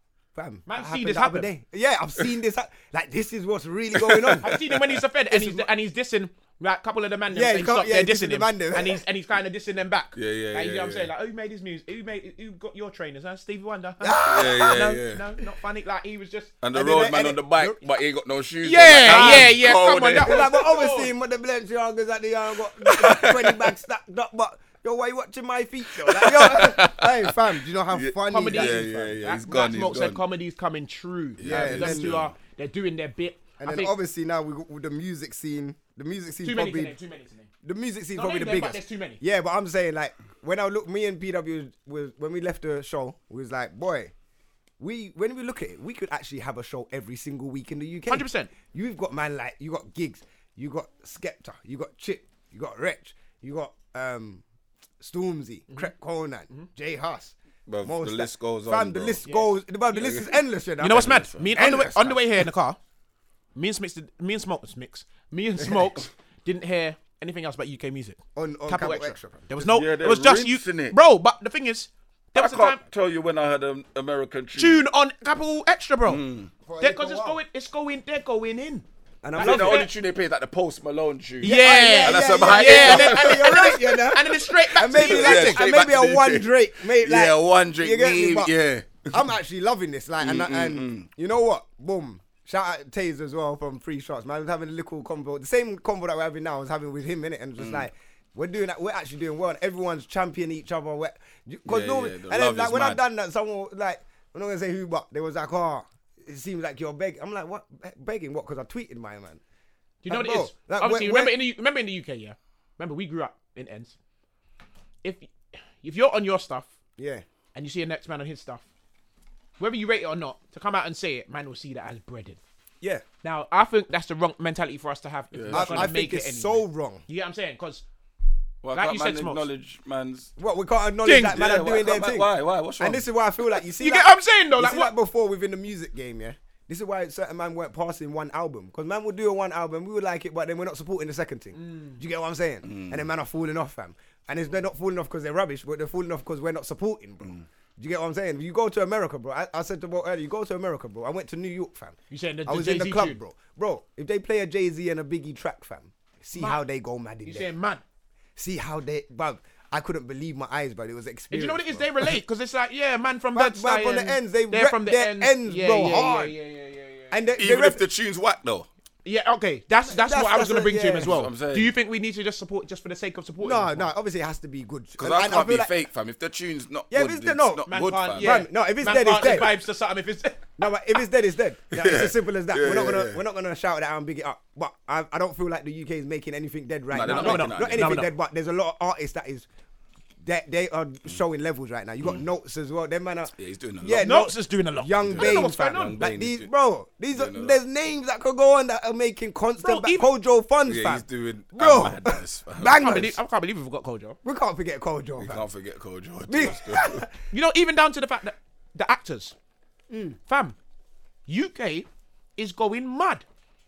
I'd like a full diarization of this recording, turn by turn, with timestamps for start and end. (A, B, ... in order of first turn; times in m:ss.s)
0:00.3-0:04.6 A
0:00.6-0:01.5 B
0:03.9-0:04.9 C
0:04.4-0:16.5 B
0:05.3-0:05.7 A
0:07.3-0:09.0 A
0:10.2-0:11.1 C
0:14.0-0:14.9 A
0:14.2-0:15.2 C
0:16.6-0:20.4 C
0:16.7-0:17.8 A
0:18.6-0:21.1 B
0:19.0-0:19.6 A
0:20.2-0:29.2 A
0:22.8-0:23.7 C
0:26.0-0:30.2 C
0:28.3-0:33.9 B
0:31.4-0:32.3 C
0:31.4-0:32.2 A
0:33.6-0:37.0 A
0:36.4-0:37.5 B
0:37.6-0:44.1 A
0:38.1-0:39.2 B
0:44.8-0:54.4 A
0:48.1-0:48.5 B
0:55.0-1:02.2 A
0:57.7-0:59.2 C
1:00.0-1:02.0 C
1:00.8-1:02.8 B
1:03.5-1:12.8 B
1:08.4-1:09.5 A
1:09.6-1:11.0 C
1:12.3-1:14.8 C
1:14.6-1:16.2 B
1:16.0-1:16.5 C
1:16.6-1:17.4 A
1:16.8-1:18.8 B
1:19.2-1:19.9 A
1:19.4-1:19.9 B
1:19.4-1:23.7 C
1:21.4-1:25.7 B
1:21.4-1:28.5 A
1:24.9-1:29.2 C
1:29.1-1:49.4 A
1:30.2-1:31.1 C
1:37.6-1:37.8 C
1:41.6-1:43.0 C
1:50.0-1:53.9 B
1:50.1-1:51.4 A
1:55.0-1:56.7 B
1:57.0-1:57.2 A
1:57.5-1:58.6 B
1:59.6-2:02.4 B
2:03.2-2:07.8 B
2:05.3-2:05.9 C
2:05.5-2:07.0 A
2:08.6-2:10.3 C
2:08.7-2:09.4 B
2:10.4-2:37.5 A
2:11.0-2:11.4 B
2:11.2-2:13.0 C
2:13.7-2:14.9 B
2:21.5-2:22.0 B
2:22.6-2:23.0 C
2:32.1-2:33.2 B
2:36.3-2:36.6 B
2:37.2-2:37.8 B
2:38.4-2:42.2 A
2:41.3-2:47.2 B
2:43.3-2:46.3 A
2:47.1-2:47.8 A
2:47.4-2:48.7 C
2:49.0-2:53.9 B
2:49.9-2:51.1 A
2:51.1-2:51.7 C
2:53.4-2:55.7 A
2:55.0-2:58.4 C
2:56.9-2:59.6 A
2:57.7-3:00.5 B
3:00.6-3:09.4 A
3:01.7-3:03.2 C
3:06.9-3:08.1 C
3:07.0-3:08.1 B
3:10.2-3:23.2 A
3:13.4-3:14.1 C
3:14.0-3:16.0 B
3:15.0-3:16.5 C
3:17.1-3:17.6 C
3:19.6-3:20.1 B
3:20.6-3:23.0 C
3:22.8-3:24.2 B
3:24.2-3:25.4 A
3:25.2-3:27.0 C
3:26.3-3:27.1 A
3:27.3-3:29.4 B
3:29.9-3:30.2 A
3:30.3-3:30.6 B
3:31.3-3:33.2 B